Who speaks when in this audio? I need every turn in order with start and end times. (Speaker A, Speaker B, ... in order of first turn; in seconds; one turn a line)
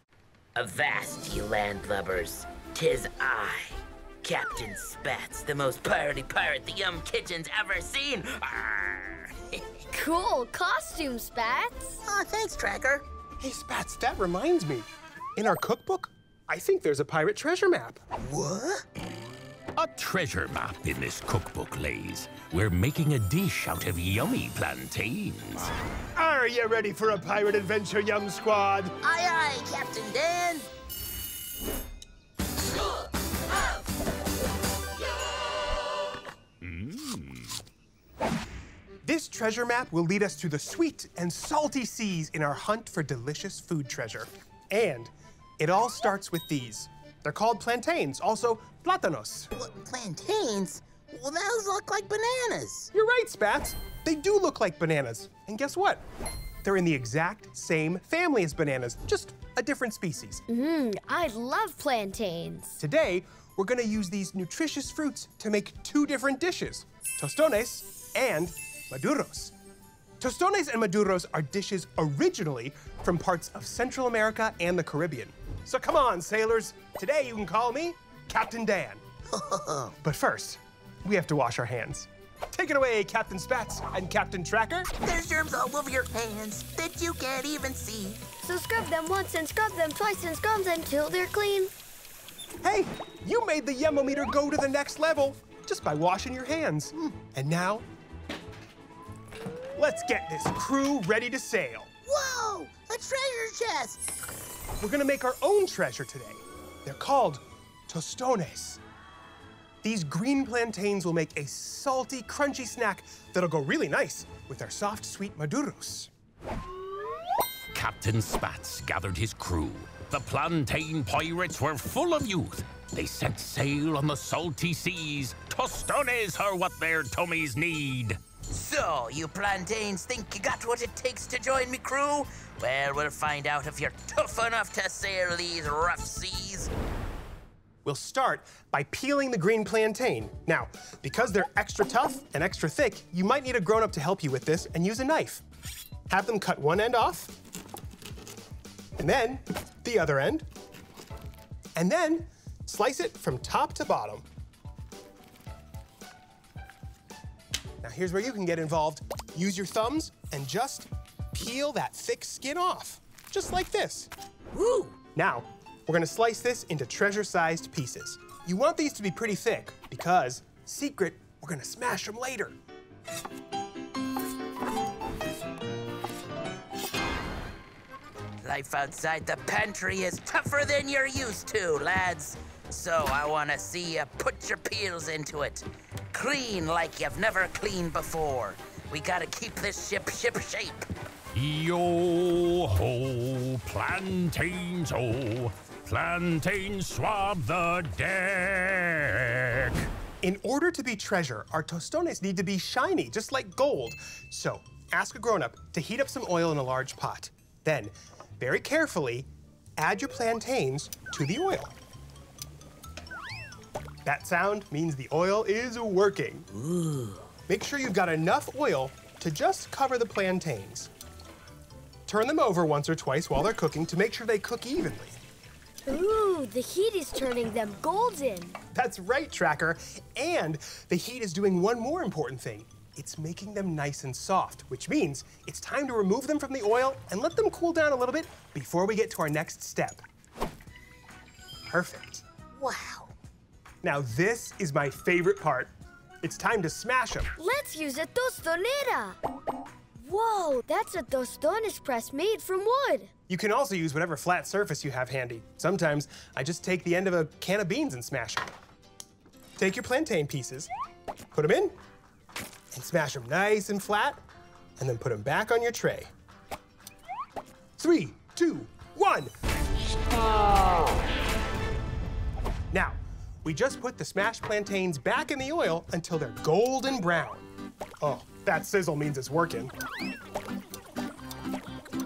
Speaker A: 0.6-9.6
Speaker B: 9.9-12.0
Speaker A: 12.1-13.1
Speaker C: 13.4-18.0
Speaker A: 18.2-18.8
Speaker D: 19.8-25.7
Speaker C: 26.2-28.9
Speaker A: 29.0-30.7
Speaker D: 36.6-37.6
Speaker C: 39.0-49.5
Speaker A: 49.5-52.9
Speaker C: 52.9-56.0
Speaker C: 56.6-60.4
Speaker B: 60.5-62.8
Speaker C: 62.8-69.5
Speaker C: 70.2-79.0
Speaker A: 79.3-80.0
Speaker C: 80.0-84.9
Speaker A: 85.0-88.2
Speaker B: 88.4-91.7
Speaker C: 92.6-97.8
Speaker C: 99.8-101.9
Speaker A: 102.1-104.0
Speaker C: 104.8-108.8
Speaker C: 109.8-116.1
Speaker D: 117.7-128.2
Speaker A: 128.5-136.7
Speaker C: 137.8-145.4
Speaker C: 146.1-147.3
Speaker C: 149.0-150.5
Speaker C: 151.8-154.3
Speaker C: 157.8-164.1
Speaker A: 164.6-164.9
Speaker C: 165.2-172.6
Speaker A: 178.4-190.9
Speaker D: 191.3-199.9
Speaker C: 200.2-211.8
Speaker C: 214.1-216.5
Speaker A: 216.6-217.2
Speaker C: 217.5-220.9
Speaker C: 222.1-225.2
Speaker B: 225.9-228.6
Speaker C: 228.7-240.0
Speaker C: 241.7-242.2
Speaker A: 242.6-243.1
Speaker C: 243.8-245.7
Speaker C: 246.2-247.3
Speaker B: 247.4-249.2
Speaker B: 250.0-253.1
Speaker C: 253.3-258.5
Speaker C: 259.6-260.7
Speaker C: 261.3-261.8
Speaker C: 262.7-264.2
Speaker C: 264.8-266.1
Speaker C: 267.8-269.3
Speaker C: 272.7-277.5
Speaker C: 278.0-279.7